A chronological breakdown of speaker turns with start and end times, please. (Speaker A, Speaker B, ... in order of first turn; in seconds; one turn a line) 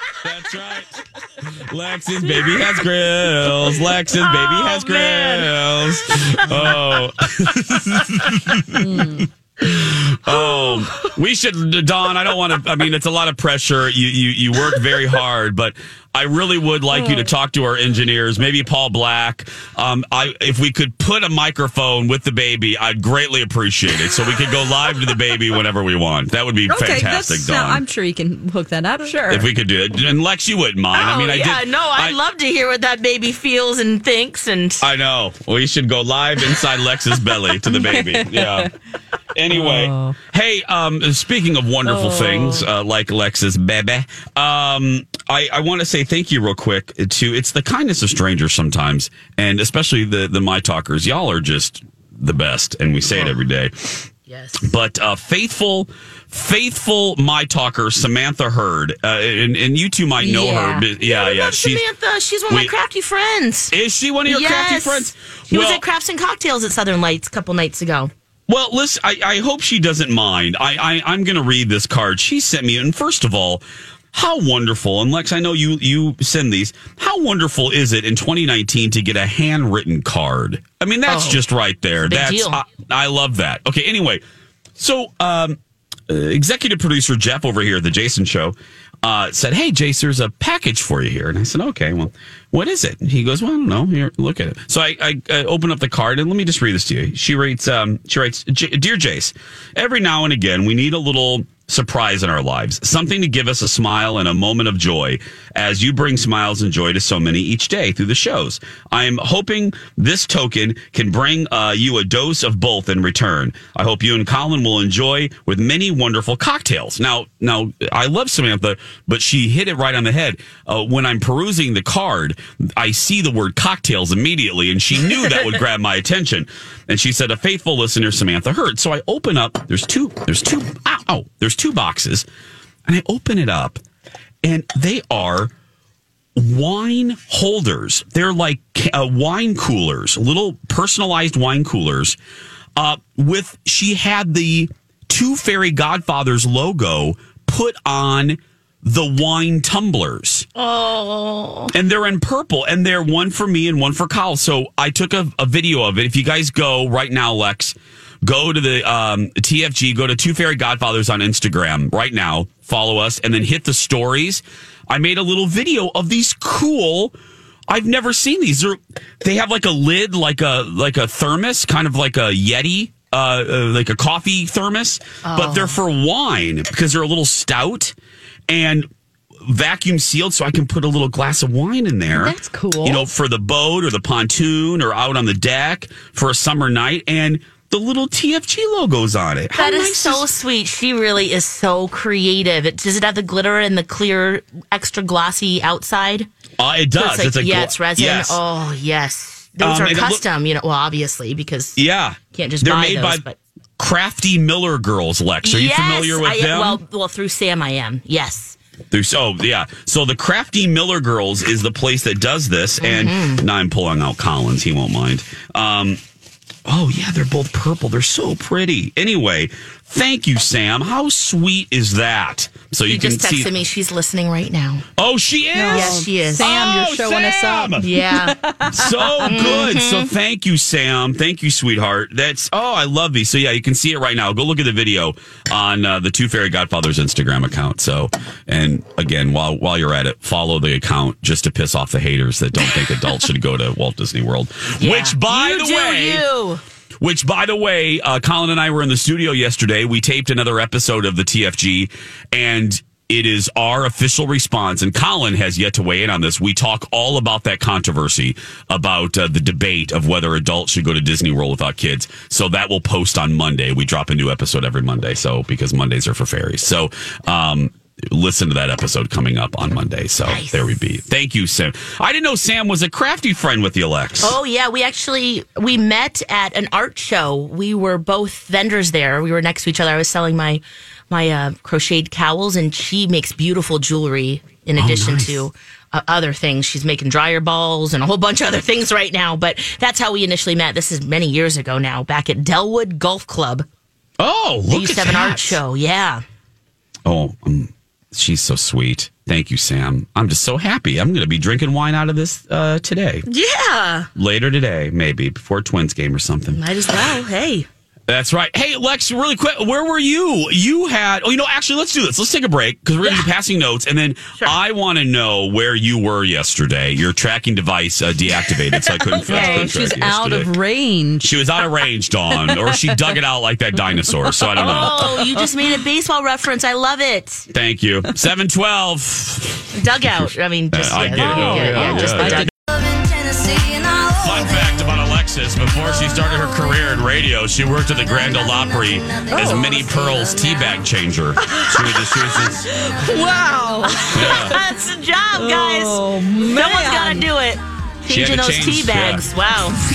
Speaker A: 0.2-27.8
Speaker B: 4.0-7.0
Speaker C: 8.7-9.3
Speaker B: 10.3-11.2
Speaker C: 17.0-17.2
Speaker C: 26.7-29.5
Speaker A: 29.3-32.2
Speaker B: 30.9-34.8
Speaker A: 34.8-38.7
Speaker C: 37.7-38.7
Speaker A: 39.4-54.1
Speaker C: 39.5-40.2
Speaker C: 41.9-42.7
Speaker B: 54.3-54.6
Speaker A: 54.6-61.8
Speaker C: 60.2-60.9
Speaker B: 61.0-63.7
Speaker A: 62.5-62.7
Speaker A: 63.7-65.8
Speaker B: 64.3-68.1
Speaker A: 68.5-84.2
Speaker B: 81.1-81.4
Speaker B: 82.0-82.6
Speaker A: 84.8-132.3
Speaker A: 132.9-133.8
Speaker A: 134.4-135.5
Speaker A: 136.4-142.2
Speaker A: 142.8-150.5
Speaker B: 150.6-151.7
Speaker A: 151.7-167.1
Speaker A: 167.7-177.9
Speaker B: 175.2-175.8
Speaker A: 178.5-178.9
Speaker A: 179.5-190.3
Speaker C: 182.1-183.0
Speaker B: 189.6-196.3
Speaker A: 196.6-198.4
Speaker B: 197.0-201.8
Speaker A: 199.6-200.2
Speaker A: 201.8-203.2
Speaker B: 202.3-203.4
Speaker A: 203.8-206.8
Speaker B: 205.4-208.6
Speaker A: 208.9-216.0
Speaker B: 212.8-213.4
Speaker A: 216.7-223.5
Speaker B: 222.9-224.8
Speaker A: 225.0-227.9
Speaker C: 225.5-229.3
Speaker B: 225.7-226.5
Speaker B: 227.8-228.4
Speaker A: 228.7-246.3
Speaker B: 229.2-230.1
Speaker B: 242.7-243.2
Speaker B: 244.8-246.6
Speaker A: 247.0-274.4
Speaker B: 270.3-270.8
Speaker B: 274.2-293.7
Speaker A: 284.8-285.4
Speaker A: 294.2-295.6
Speaker B: 294.7-296.2
Speaker A: 297.1-303.2
Speaker B: 303.3-304.1
Speaker A: 304.2-306.6
Speaker B: 306.5-307.7
Speaker A: 308.1-320.5
Speaker C: 319.1-321.4
Speaker B: 319.1-319.8
Speaker A: 321.2-325.1
Speaker C: 322.5-322.9
Speaker C: 324.3-325.5
Speaker B: 324.6-327.5
Speaker A: 327.5-332.5
Speaker B: 329.7-332.5
Speaker C: 331.1-332.5
Speaker A: 334.1-342.7
Speaker C: 339.3-339.7
Speaker C: 341.4-344.6
Speaker B: 343.9-349.8
Speaker A: 344.1-344.6
Speaker C: 345.4-347.3
Speaker A: 348.1-349.3